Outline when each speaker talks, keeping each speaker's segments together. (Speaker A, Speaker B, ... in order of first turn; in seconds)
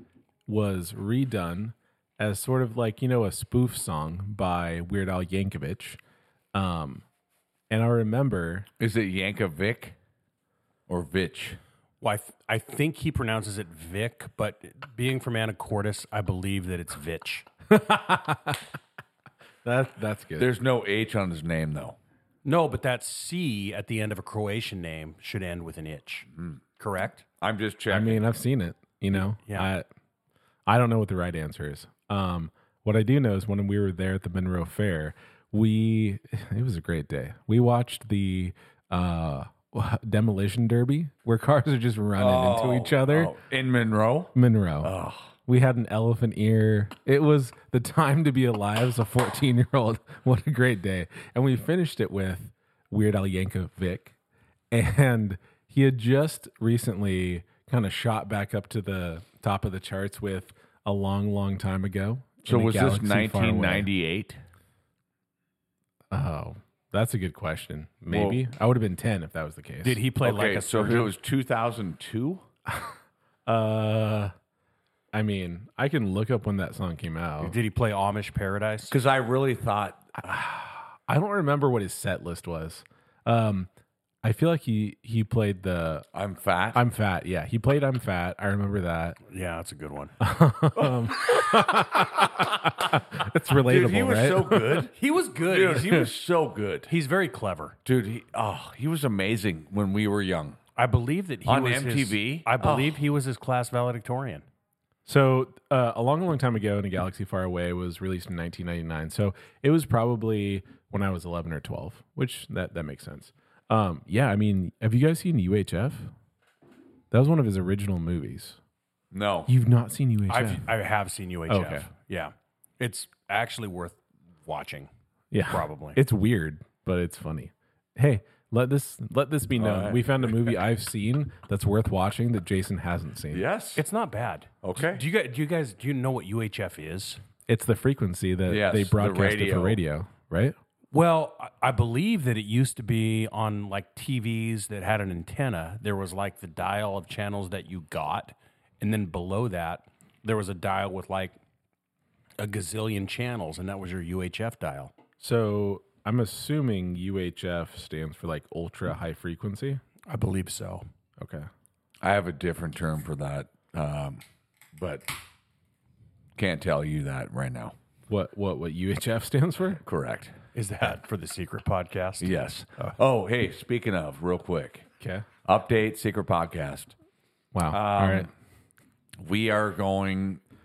Speaker A: 0.5-6.0, 6.5-7.0, 7.7-8.7, 17.7-18.6, 19.6-20.5, 27.9-29.9, 30.7-43.3, 44.3-44.9, 45.5-54.1, 54.7-63.9, 66.1-70.0, 72.7-72.9, 73.5-74.3, 75.1-77.5, 80.2-83.7, 84.2-86.1, 86.7-89.2, 90.2-94.9, 105.0-116.1, 117.1-118.6, 119.5-120.7, 121.5-121.9, 125.3-133.4, 137.5-140.5, 155.2-159.8, 161.2-161.5, 168.1-169.8, 175.0-175.2, 177.5-178.3
Speaker B: 8.8-9.9, 10.9-11.6, 20.4-22.0, 27.4-28.2, 42.2-45.3, 62.5-64.4, 68.1-68.5, 70.2-72.4, 78.9-80.1, 86.1-86.8, 90.8-92.7, 93.5-96.9, 97.8-100.6, 101.5-103.0, 119.1-119.5, 129.6-130.5, 133.3-133.8, 134.6-135.0, 138.5-139.8, 162.0-164.2, 164.7-165.1, 166.3-167.7, 169.8-170.3, 172.2-174.9, 175.4-176.9, 177.7-178.3, 179.2-180.4
Speaker C: 12.0-17.4, 22.4-27.2, 29.1-29.7, 69.8-71.1, 77.4-78.9, 89.3-90.1, 94.9-96.1, 96.9-97.8, 100.8-104.4, 120.3-124.9, 125.5-126.0, 133.8-137.2, 140.9-151.4, 152.4-154.9, 160.1-160.8, 170.5-172.9